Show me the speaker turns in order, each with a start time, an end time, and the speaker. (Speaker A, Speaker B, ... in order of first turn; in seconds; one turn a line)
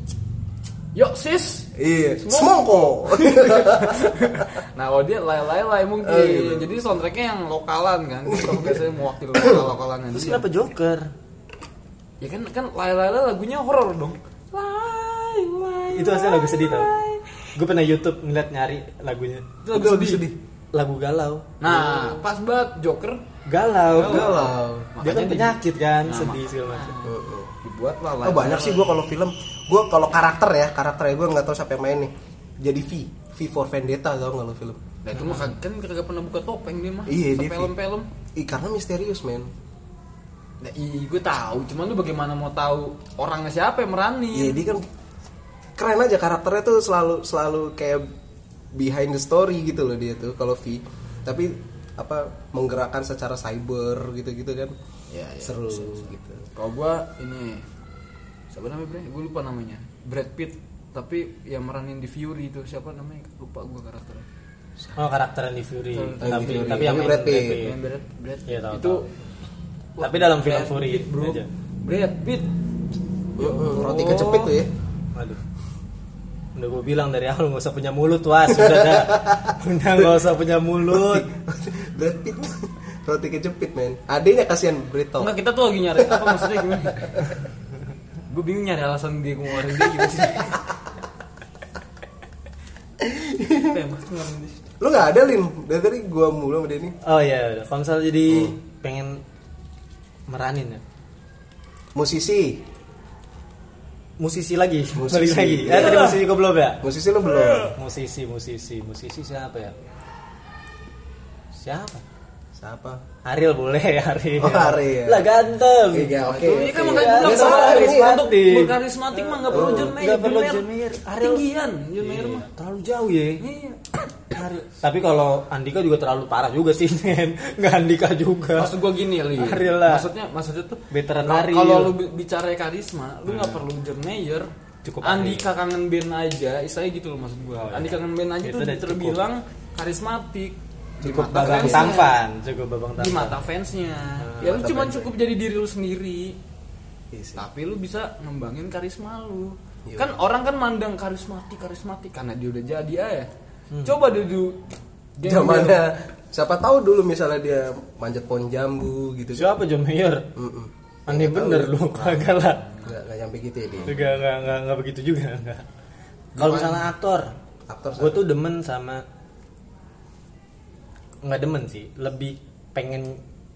Speaker A: 0.9-10.4
Speaker B: 1.8-4.4
Speaker B: 6.0-6.7
Speaker B: 8.3-8.7
Speaker C: 10.1-11.1
Speaker A: 12.2-17.5
Speaker C: 15.9-16.9
Speaker C: 17.5-19.5
Speaker A: 19.6-20.2
Speaker B: 19.7-20.4
Speaker C: 20.7-21.8
Speaker A: 21.6-23.2
Speaker C: 23.4-26.9
Speaker B: 23.9-24.9
Speaker A: 23.9-29.0
Speaker B: 27.0-27.5
Speaker B: 28.2-34.8
Speaker A: 35.0-38.1
Speaker C: 35.1-35.5
Speaker B: 37.1-37.7
Speaker B: 38.4-39.5
Speaker A: 40.6-44.6
Speaker B: 44.3-44.9
Speaker B: 45.8-48.0
Speaker B: 48.7-54.8
Speaker A: 55.1-57.7
Speaker B: 55.4-56.5
Speaker A: 58.5-64.2
Speaker C: 65.0-67.7
Speaker A: 65.9-69.1
Speaker B: 66.2-67.7
Speaker C: 68.5-69.0
Speaker A: 70.0-72.5
Speaker C: 70.0-71.5
Speaker B: 73.4-74.7
Speaker A: 73.4-74.5
Speaker C: 75.1-75.4
Speaker C: 76.5-81.3
Speaker B: 78.5-80.0
Speaker B: 80.9-85.3
Speaker A: 85.2-87.3
Speaker B: 86.0-87.2
Speaker A: 88.3-90.7
Speaker B: 93.0-93.8
Speaker A: 93.5-94.6
Speaker B: 94.8-96.9
Speaker C: 97.0-99.2
Speaker B: 98.3-98.5
Speaker C: 100.3-100.8
Speaker B: 101.9-102.6
Speaker C: 104.2-106.8
Speaker B: 104.9-106.2
Speaker A: 105.7-106.2
Speaker B: 106.8-107.7
Speaker A: 107.3-107.7
Speaker C: 107.7-109.7
Speaker C: 111.5-112.0
Speaker B: 112.5-113.0
Speaker C: 113.2-121.4
Speaker B: 114.4-115.2
Speaker B: 115.9-118.2
Speaker A: 116.2-122.5
Speaker B: 119.5-119.9
Speaker C: 122.0-123.4
Speaker A: 123.4-124.0
Speaker C: 124.3-128.7
Speaker A: 128.6-134.5
Speaker C: 129.3-130.1
Speaker C: 130.9-131.9
Speaker C: 133.2-133.6
Speaker C: 134.8-135.5
Speaker A: 135.0-142.2
Speaker C: 137.6-139.2
Speaker C: 141.0-143.4
Speaker B: 141.1-141.9
Speaker A: 143.0-146.4
Speaker C: 144.2-144.7
Speaker B: 144.4-145.1
Speaker B: 147.1-147.4
Speaker A: 147.3-153.3
Speaker B: 149.9-150.1
Speaker C: 153.7-154.0
Speaker A: 153.8-154.6
Speaker A: 155.2-155.8
Speaker B: 155.2-159.5
Speaker C: 159.3-160.3
Speaker B: 160.3-161.8
Speaker C: 161.1-162.6
Speaker A: 161.9-162.9
Speaker B: 162.8-164.0
Speaker C: 163.8-165.7
Speaker B: 166.3-166.8
Speaker C: 166.4-167.3
Speaker B: 167.7-168.2
Speaker C: 168.0-169.0
Speaker C: 171.2-173.2